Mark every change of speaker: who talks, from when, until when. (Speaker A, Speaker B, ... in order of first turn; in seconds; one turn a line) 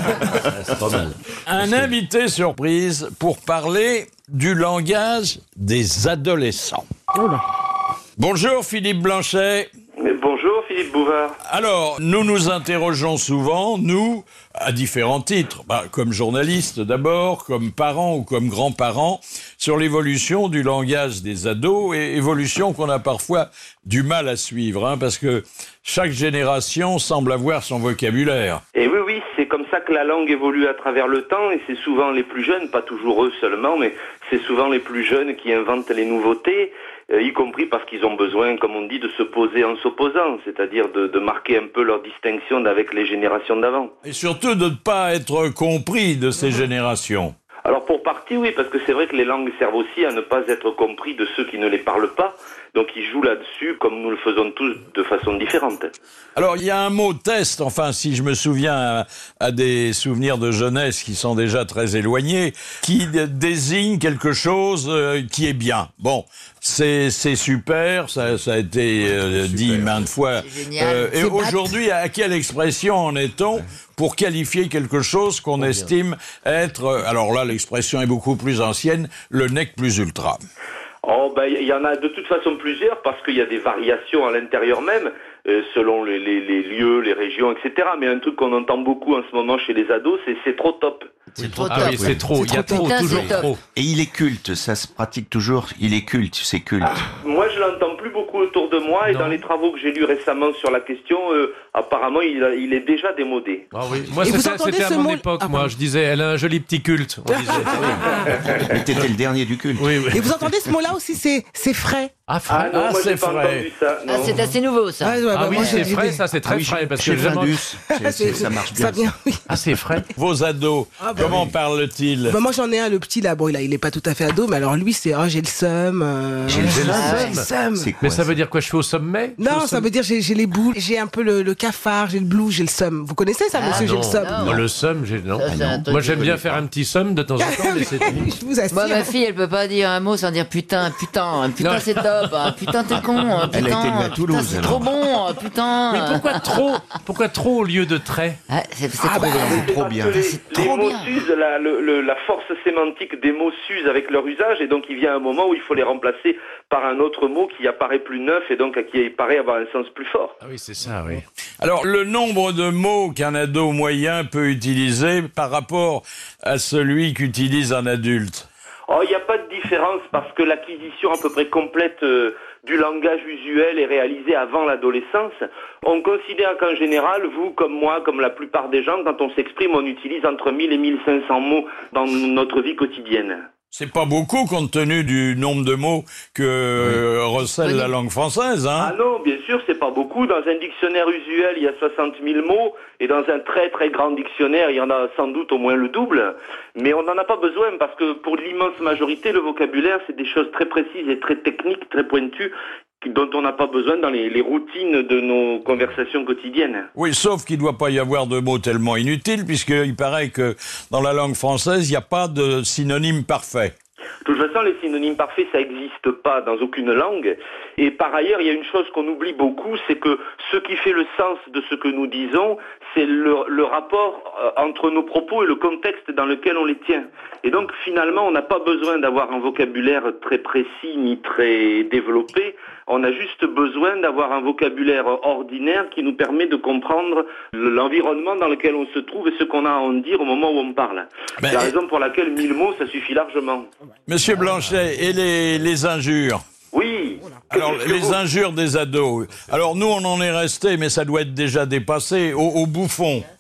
Speaker A: 0.5-1.9
Speaker B: 1.5-6.8
Speaker C: 7.2-7.4
Speaker B: 8.2-9.7
Speaker D: 10.0-11.4
Speaker B: 11.4-28.6
Speaker D: 28.8-43.9
Speaker B: 44.0-47.3
Speaker D: 47.7-55.9
Speaker B: 56.4-80.4
Speaker A: 69.2-70.1
Speaker E: 70.4-71.8
Speaker A: 75.6-75.9
Speaker D: 81.0-91.2
Speaker A: 91.4-93.6
Speaker E: 91.4-93.5
Speaker F: 91.8-92.2
Speaker C: 92.4-93.2
Speaker F: 93.8-97.0
Speaker D: 97.2-103.7
Speaker A: 99.1-99.4
Speaker A: 103.7-108.7
Speaker C: 104.2-105.8
Speaker C: 107.3-108.4
Speaker F: 108.6-110.0
Speaker A: 109.8-110.4
Speaker C: 110.1-112.1
Speaker A: 112.3-112.8
Speaker D: 112.5-114.4
Speaker B: 112.7-113.7
Speaker E: 114.1-115.8
Speaker C: 115.0-116.2
Speaker A: 115.3-117.7
Speaker F: 116.5-119.1
Speaker C: 117.9-119.5
Speaker A: 119.5-120.1
Speaker B: 120.1-122.4
Speaker C: 121.0-121.5
Speaker C: 122.3-127.9
Speaker A: 126.5-127.5
Speaker F: 126.5-128.3
Speaker E: 126.8-127.4
Speaker A: 128.0-129.9
Speaker C: 129.4-134.6
Speaker E: 133.5-134.6
Speaker A: 133.7-138.3
Speaker E: 135.4-136.3
Speaker F: 135.4-136.7
Speaker C: 137.4-139.1
Speaker E: 138.7-146.6
Speaker A: 141.6-142.5
Speaker F: 143.5-145.0
Speaker A: 145.9-148.4
Speaker E: 148.5-151.1
Speaker C: 149.0-149.6
Speaker F: 149.0-150.4
Speaker D: 149.5-160.4
Speaker A: 160.4-161.2
Speaker B: 161.6-168.5
Speaker D: 168.9-183.5
Speaker B: 183.7-188.9
Speaker D: 188.8-206.9
Speaker B: 207.0-213.7
Speaker D: 214.2-243.7
Speaker B: 241.4-241.7
Speaker B: 244.1-246.4
Speaker D: 246.7-248.2
Speaker B: 247.5-253.3